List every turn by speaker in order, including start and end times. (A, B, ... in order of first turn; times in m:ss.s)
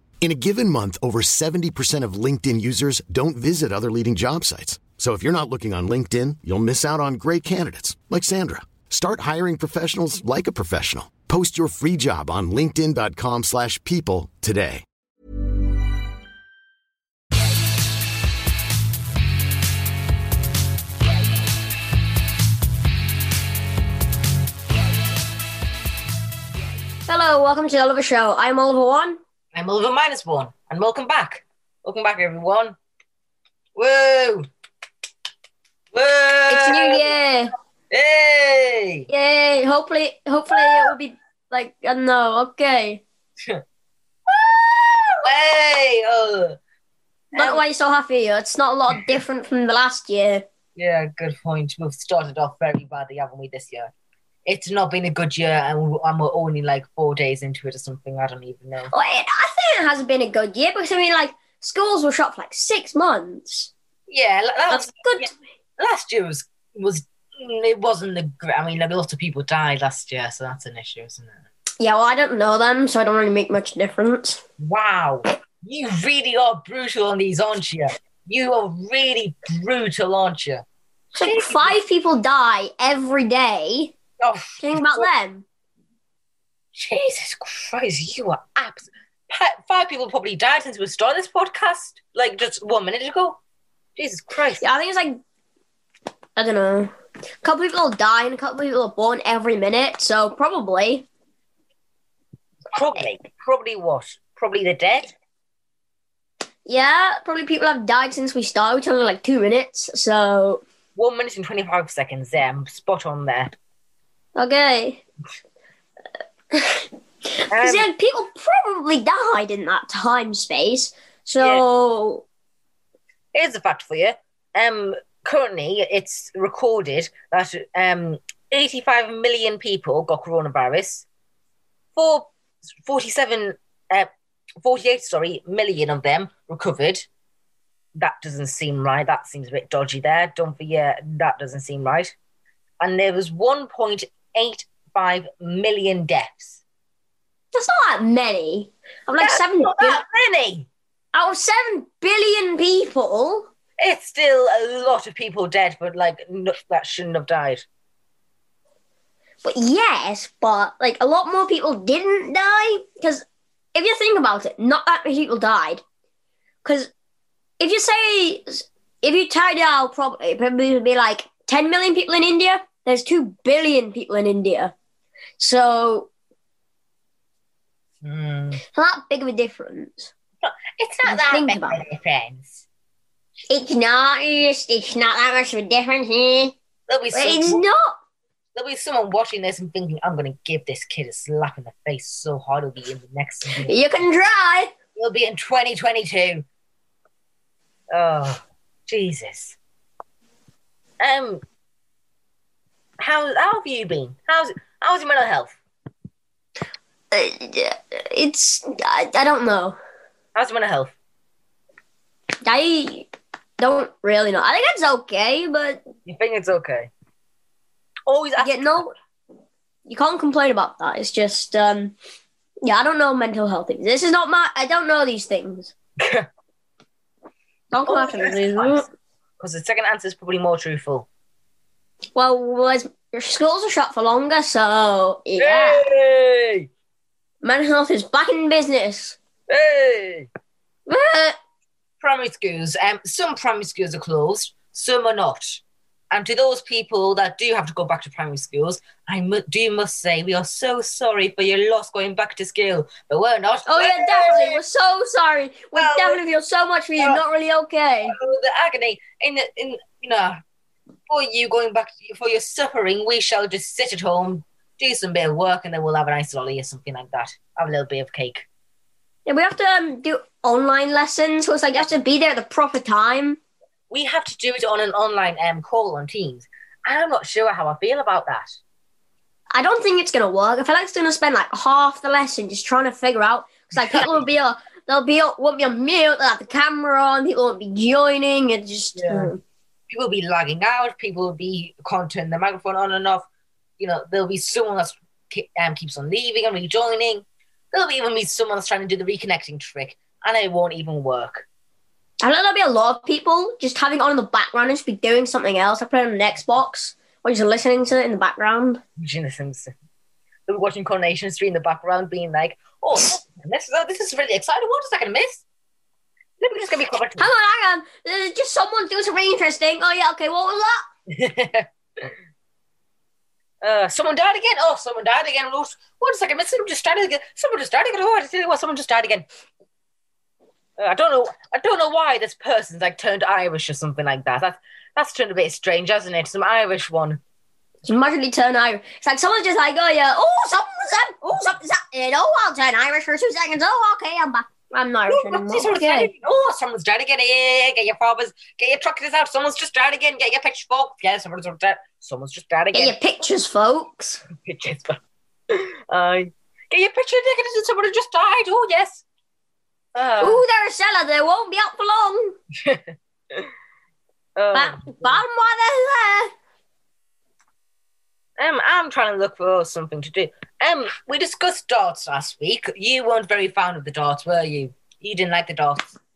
0:00.2-0:14.8 A
0:27.1-0:29.2 B
0:29.5-0:32.8 C
0:33.8-0:34.5 C
0:35.9-0:37.1 C
0:36.5-0:37.5 B
0:37.9-0:39.1 C
0:39.1-0:43.0 B
0:40.5-0:40.9 C
0:44.3-0:46.6 C
0:47.3-0:47.6 C
0:47.3-0:50.4 B
0:50.8-0:53.9 C
0:54.5-0:58.9 C
0:58.9-1:03.7 B
1:04.1-1:11.4 C
1:04.7-1:05.3 B
1:11.8-1:14.4 B
1:14.6-1:20.6 C
1:21.2-1:23.9 B
1:21.2-1:21.8 C
1:24.2-1:25.1 C
1:24.6-1:25.4 B
1:26.8-1:33.4 C
1:34.0-1:34.7 C
1:34.6-1:35.2 B
1:36.4-1:41.1 B
1:42.7-1:45.1 C
1:46.7-1:50.6 B
1:51.0-1:53.5 C
1:54.4-1:55.0 B
1:56.5-2:02.2 B
1:57.5-1:57.9 C
2:01.4-2:01.6 C
2:03.3-2:11.1 C
2:12.0-2:12.3 C
2:12.8-2:14.1 C
2:14.6-2:17.1 C
2:18.0-2:22.1 C
2:22.8-2:26.6 C
2:27.5-2:30.0 B
2:29.2-2:30.7 C
2:31.1-2:33.5 B
2:33.8-2:37.6 C
2:39.4-2:45.8 B
2:46.6-2:46.9 B
2:47.6-2:54.7 B
2:55.4-2:56.1 B
2:58.0-2:58.6 C
2:58.7-3:00.1 B
3:00.4-3:02.6 C
3:01.0-3:01.8 B
3:03.5-3:06.6 B
3:06.9-3:07.6 C
3:07.1-3:08.0 B
3:08.6-3:13.8 C
3:13.6-3:14.7 B
3:15.0-3:16.4 C
3:17.9-3:19.6 C
3:21.0-3:21.4 C
3:23.0-3:25.6 C
3:27.1-3:29.8 B
3:30.4-3:30.9 C
3:32.4-3:35.8 B
3:36.1-3:36.9 C
3:38.1-3:38.8 C
3:38.4-3:38.9 B
3:39.9-3:42.0 B
3:42.6-3:45.7 B
3:46.0-3:46.3 C
3:47.7-3:48.9 B
3:47.9-3:48.9 C
3:49.4-3:51.1 C
3:52.2-3:55.8 B
3:55.4-3:56.7 C
3:57.4-3:59.2 B
3:59.5-4:00.3 C
4:00.9-4:01.4 B
4:02.0-4:14.6 C
4:13.7-4:18.2 B
4:15.8-4:16.2 C
4:18.1-4:20.4 C
4:21.1-4:28.5 C
4:29.3-4:33.4 B
4:33.9-4:38.6 C
4:39.5-4:49.4 B
4:43.7-4:44.2 C
4:49.0-4:49.3 C
4:49.9-4:53.3 C
4:53.8-5:01.5 C
5:02.2-5:08.8 B
5:09.0-5:09.7 C
5:10.5-5:15.4 C
5:16.4-5:17.3 C
5:17.2-5:20.8 B
5:21.1-5:22.1 C
5:23.6-5:29.2 C
5:30.8-5:37.2 C
5:37.9-5:46.1 B
5:45.1-5:52.9 C
5:52.7-5:54.2 B
5:54.4-5:59.0 C
6:00.0-6:00.4 C
6:00.2-6:02.4 B
6:02.6-6:03.5 C
6:04.4-6:05.2 C
6:04.5-6:06.3 B
6:08.4-6:15.9 C